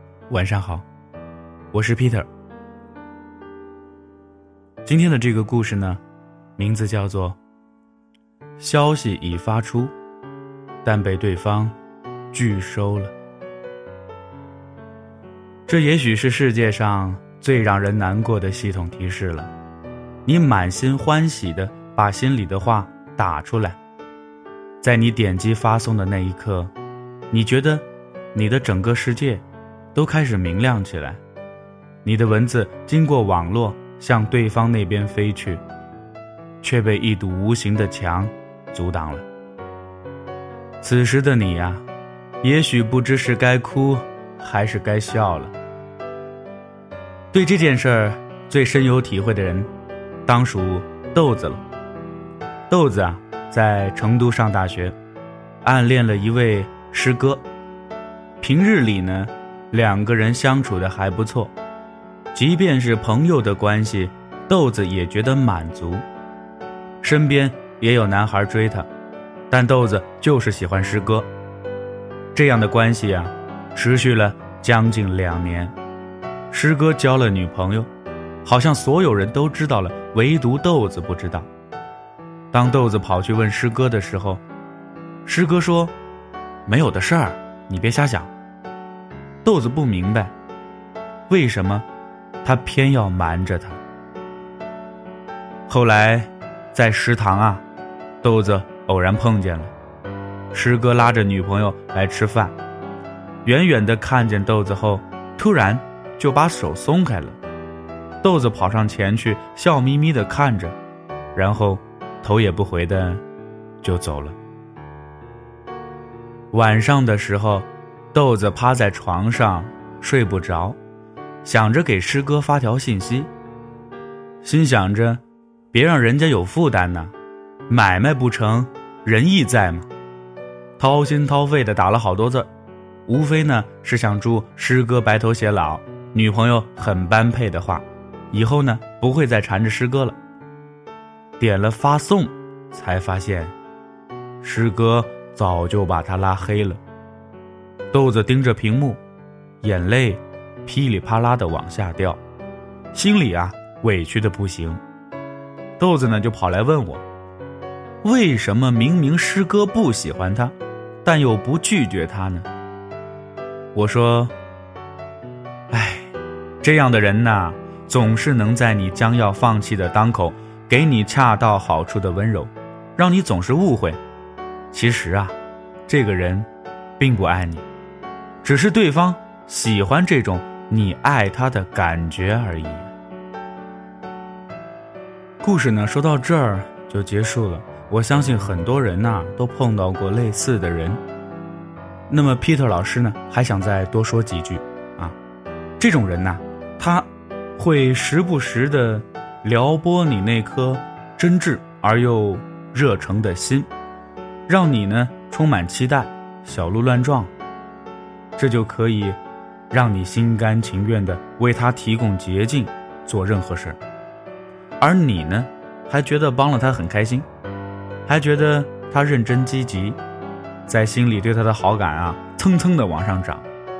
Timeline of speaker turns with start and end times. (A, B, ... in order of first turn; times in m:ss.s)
0:00.3-0:00.9 A
0:01.7-0:02.3 A
0:04.8-0:06.0 A
0:06.6-0:07.4 A
0:08.6-0:09.9 A
0:10.8-0:11.8 A
0:12.3-0:13.1 A
0:15.7-0:19.5 A
0:20.2-0:23.8 A
0:24.8-0:26.7 A
0:27.3-0:31.2 A
0:32.0-0:35.6 A
0:36.6-0:39.3 A
0:40.8-0:41.8 A
0:42.4-0:45.5 A
0:47.3-0:49.7 A
0:50.3-0:51.6 A
0:52.7-0:55.0 A
0:55.6-0:57.4 A
0:58.4-1:01.5 A
1:02.3-1:06.0 A
1:07.0-1:08.9 A
1:09.5-1:11.3 A
1:12.3-1:15.7 A
1:16.5-1:17.9 A
1:18.4-1:21.5 A
1:22.5-1:24.4 A
1:25.2-1:25.9 A
1:26.7-1:28.3 A
1:29.4-1:30.3 A
1:31.3-1:31.9 A
1:32.4-1:33.8 A
1:35.7-1:37.6 A
1:38.2-1:39.7 A
1:40.5-1:42.6 A
1:43.4-1:47.4 A
1:48.2-1:50.8 A
1:51.4-1:53.2 A
1:53.8-1:54.4 A
1:56.5-2:00.8 A
2:01.4-2:03.3 A
2:04.4-2:07.1 A
2:07.7-2:09.9 A
2:10.8-2:12.5 A
2:13.1-2:20.2 A
2:21.4-2:23.5 A
2:24.4-2:26.8 A
2:27.9-2:29.0 A
2:29.6-2:32.2 A
2:32.9-2:34.8 A
2:35.8-2:37.0 A
2:38.0-2:42.5 A
2:43.7-2:44.3 A
2:45.7-2:54.0 A
2:54.7-2:55.4 A
2:55.9-2:56.5 A
2:57.0-2:57.7 A
2:58.4-3:02.9 A
3:05.4-3:11.0 A
3:12.1-3:15.2 A
3:15.8-3:23.7 A
3:24.5-3:27.3 A
3:28.4-3:29.2 A
3:29.7-3:33.8 A
3:34.8-3:37.3 A
3:38.1-3:40.0 A
3:40.7-3:43.5 A